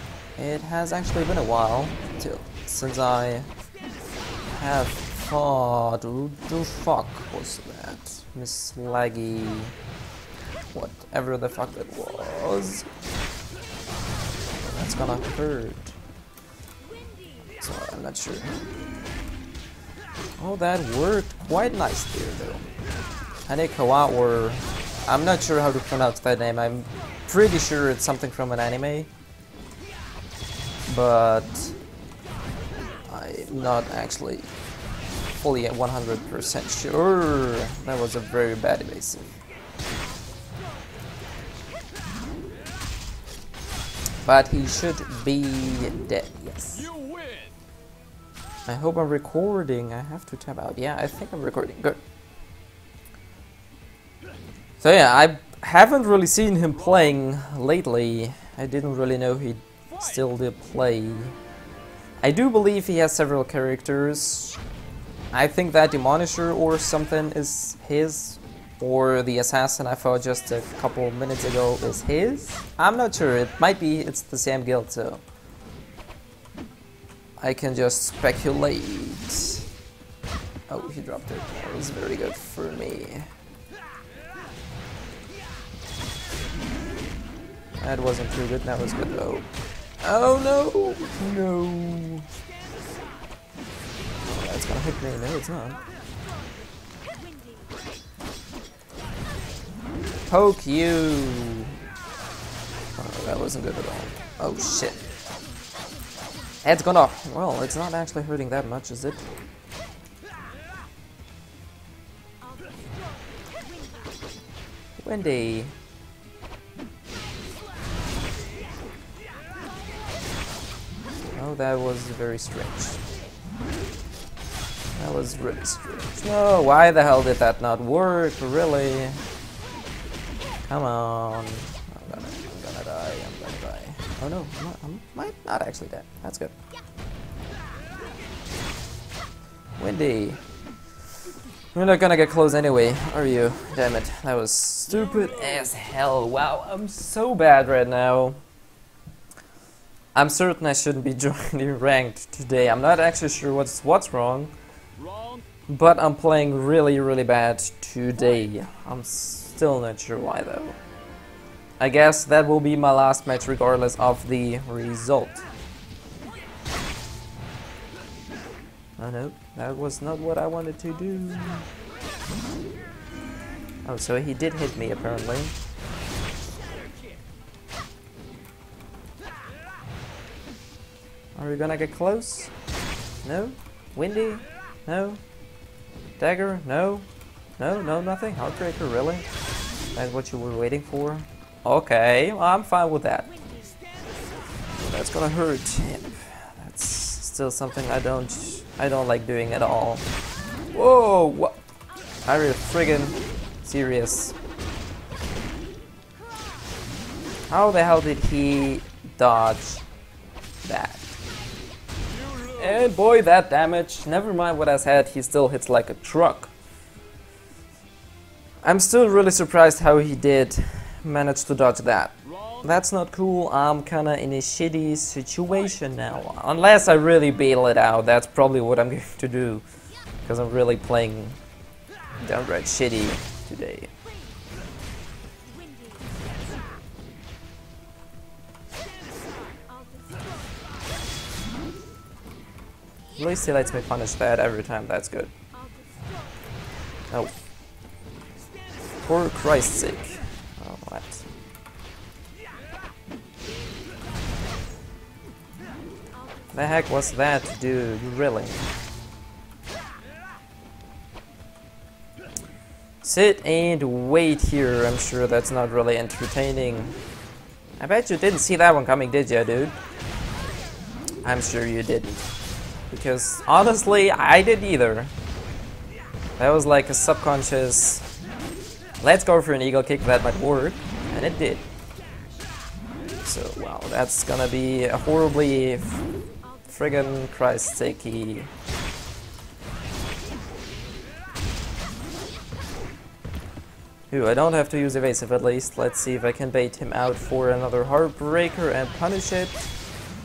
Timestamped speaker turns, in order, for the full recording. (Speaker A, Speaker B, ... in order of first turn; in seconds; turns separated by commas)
Speaker A: 0.4-3.5, Speaker A: 4.5-9.7, Speaker A: 10.7-12.9, Speaker A: 14.5-15.9, Speaker A: 17.6-18.6, Speaker A: 20.4-22.6, Speaker A: 23.4-29.1, Speaker A: 30.9-31.8, Speaker A: 33.0-34.5, Speaker A: 35.4-39.3, Speaker A: 44.2-46.9, Speaker A: 48.6-52.0, Speaker A: 54.8-61.3, Speaker A: 62.2-64.6, Speaker A: 65.3-75.2, Speaker A: 77.4-79.7, Speaker A: 80.7-83.3, Speaker A: 87.8-89.5, Speaker A: 90.0-92.2, Speaker A: 94.2-95.8, Speaker A: 100.3-101.7, Speaker A: 103.0-105.0, Speaker A: 106.6-109.2, Speaker A: 115.0-115.7, Speaker A: 121.3-123.0, Speaker A: 125.0-129.2, Speaker A: 130.7-136.5, Speaker A: 139.8-140.4, Speaker A: 141.7-148.4, Speaker A: 150.1-154.5, Speaker A: 155.7-160.8, Speaker A: 161.8-165.4, Speaker A: 169.0-171.7, Speaker A: 173.8-175.5, Speaker A: 181.3-182.5, Speaker A: 183.2-185.2, Speaker A: 186.2-187.1, Speaker A: 187.6-189.2, Speaker A: 189.9-193.4, Speaker A: 194.8-200.1, Speaker A: 200.7-201.6, Speaker A: 202.2-204.3, Speaker A: 207.5-209.8, Speaker A: 210.6-211.2, Speaker A: 212.5-216.5, Speaker A: 218.6-229.6, Speaker A: 230.2-231.4, Speaker A: 232.2-233.9, Speaker A: 243.2-245.3, Speaker A: 249.0-251.2, Speaker A: 256.5-258.7, Speaker A: 263.0-266.9, Speaker A: 267.8-269.8, Speaker A: 271.2-272.3, Speaker A: 272.9-275.1, Speaker A: 276.4-278.1, Speaker A: 279.0-281.6, Speaker A: 283.2-286.0, Speaker A: 286.7-288.5, Speaker A: 294.1-299.7